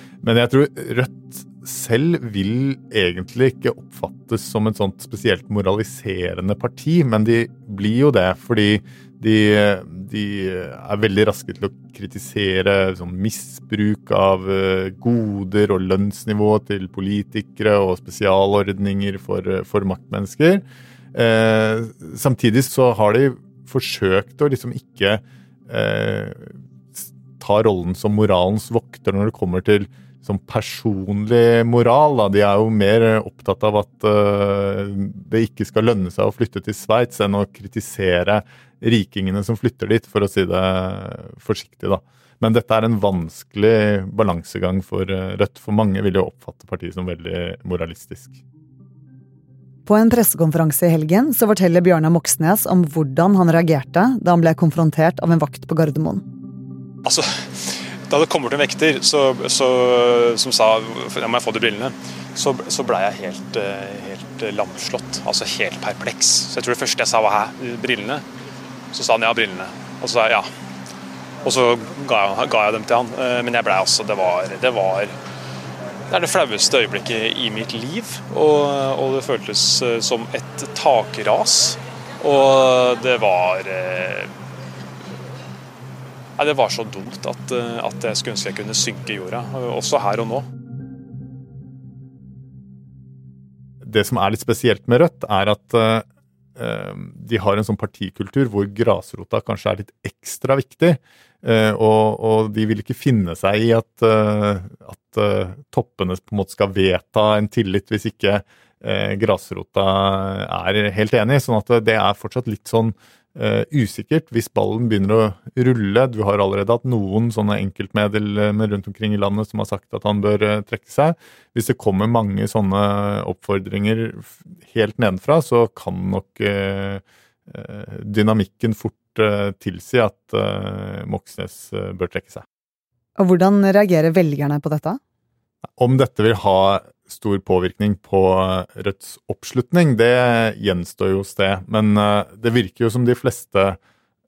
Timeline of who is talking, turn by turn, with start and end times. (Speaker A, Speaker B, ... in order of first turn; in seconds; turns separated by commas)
Speaker A: 0.2-48.4, Speaker B: 49.9-56.2, Speaker C: 58.1-68.2, Speaker C: 68.9-70.5, Speaker C: 71.4-75.1, Speaker C: 76.1-84.3, Speaker C: 86.4-90.5, Speaker A: 93.8-96.0, Speaker A: 96.6-132.4, Speaker B: 133.2-135.0, Speaker A: 135.8-143.8